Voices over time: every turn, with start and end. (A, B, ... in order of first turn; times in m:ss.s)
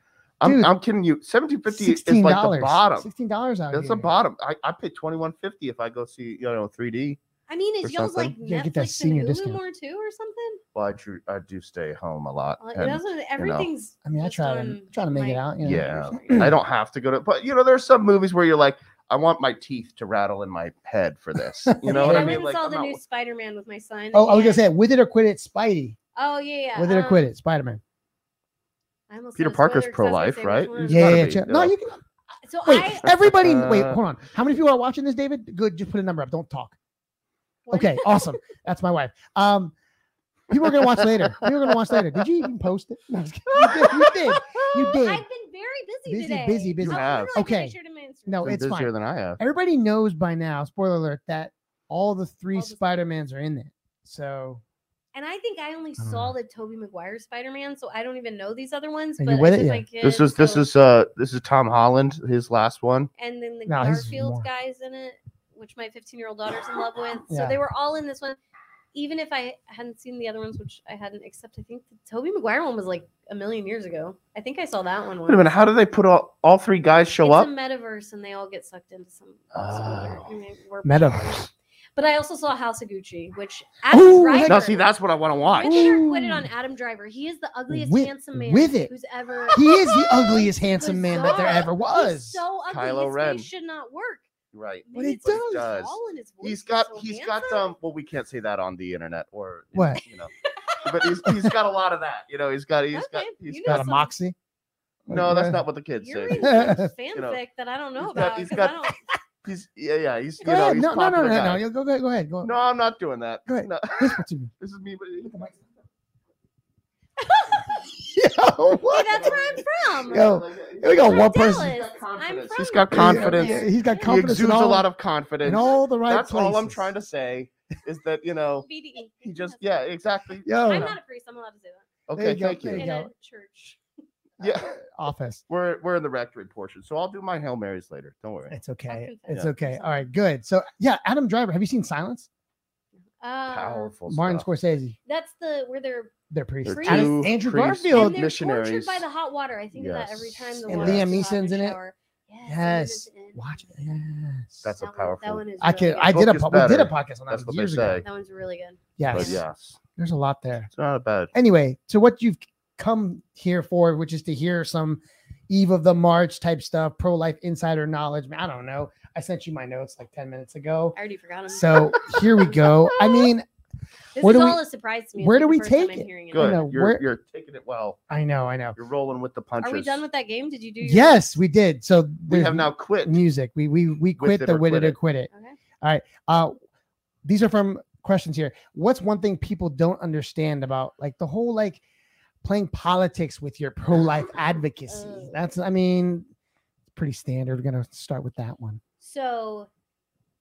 0:00.4-0:03.1 A
0:00.4-0:00.7 B
0:01.7-0:04.1 B
0:03.7-0:07.2 A
0:07.5-0:10.6 C
0:07.8-0:08.3 A
0:08.4-0:09.6 B
0:10.8-0:13.7 A
0:12.6-0:16.5 C
0:14.0-0:16.6 B
0:15.6-0:23.0 A
0:21.7-0:22.4 B
0:21.8-0:24.6 C
0:24.1-0:26.0 B
0:26.2-0:27.2 C
0:26.8-0:27.8 B
0:29.1-0:31.2 C
0:29.4-0:31.7 A
0:30.8-0:32.0 B
0:32.4-0:33.1 C
0:32.6-0:36.8 B
0:33.2-0:34.0 A
0:37.7-0:38.4 C
0:37.7-0:39.8 B
0:40.5-0:45.3 B
0:44.9-0:48.6 C
0:46.1-0:47.8 B
0:46.8-0:47.3 A
0:48.3-0:54.6 B
0:48.4-0:49.4 A
0:52.5-0:53.1 C
0:55.1-1:00.6 C
0:56.0-0:56.4 B
0:59.2-0:59.8 B
1:00.0-1:03.1 A
1:03.2-1:08.4 C
1:03.7-1:04.5 B
1:07.3-1:07.6 B
1:08.9-1:15.4 C
1:15.3-1:17.5 A
1:17.2-1:24.8 C
1:19.5-1:20.3 A
1:20.8-1:21.5 B
1:23.9-1:24.6 B
1:24.5-1:26.0 A
1:25.6-1:34.3 C
1:25.6-1:26.5 B
1:27.7-1:28.9 B
1:29.5-1:32.4 B
1:32.7-1:33.5 A
1:34.5-1:40.3 A
1:34.9-1:37.7 C
1:34.9-1:35.6 B
1:39.7-1:40.0 B
1:40.8-1:43.9 A
1:41.3-1:41.6 B
1:42.9-1:44.1 C
1:43.7-1:44.4 B
1:45.1-1:45.6 B
1:45.1-1:47.4 A
1:46.0-1:49.0 C
1:46.4-1:46.9 B
1:48.0-1:48.8 A
1:49.4-1:51.6 A
1:50.4-1:52.5 B
1:52.4-1:55.4 A
1:53.5-1:54.5 B
1:55.2-1:55.6 B
1:57.2-1:57.7 C
1:57.8-1:59.4 B
1:58.9-2:00.3 C
1:59.1-2:08.7 A
2:00.1-2:01.8 B
2:01.0-2:04.2 C
2:02.9-2:04.9 B
2:05.4-2:06.9 B
2:08.6-2:09.9 C
2:09.2-2:10.9 A
2:10.4-2:11.0 B
2:10.6-2:11.9 C
2:12.1-2:12.9 A
2:12.2-2:13.1 B
2:12.8-2:13.8 C
2:14.4-2:14.8 A
2:14.4-2:15.4 B
2:15.5-2:18.6 A
2:18.5-2:22.3 B
2:18.9-2:20.0 C
2:23.2-2:23.9 C
2:23.5-2:24.5 A
2:24.1-2:25.0 B
2:25.1-2:26.1 C
2:26.3-2:28.2 B
2:26.6-2:29.0 A
2:26.7-2:27.3 C
2:27.9-2:33.8 C
2:29.7-2:31.1 A
2:30.7-2:31.8 B
2:32.5-2:34.7 B
2:34.6-2:35.4 A
2:34.8-2:36.2 C
2:35.6-2:38.0 B
2:36.1-2:38.1 A
2:38.0-2:39.4 C
2:39.0-2:39.4 B
2:39.1-2:39.8 A
2:40.0-2:40.7 B
2:40.7-2:41.3 A
2:41.3-2:51.0 B
2:51.0-2:53.3 C
2:51.5-2:53.5 B
2:54.2-2:56.6 C
2:54.2-2:54.6 B
2:55.2-2:57.0 B
2:56.3-2:58.0 A
2:58.1-2:58.8 B
2:58.8-3:00.0 A
2:59.6-3:01.2 C
3:00.8-3:05.3 B
3:02.3-3:03.2 A
3:04.2-3:05.0 A
3:05.3-3:05.6 C
3:05.8-3:06.5 B
3:07.2-3:11.8 B
3:12.4-3:16.3 B
3:14.9-3:15.4 C
3:16.9-3:18.8 B
3:19.0-3:19.7 C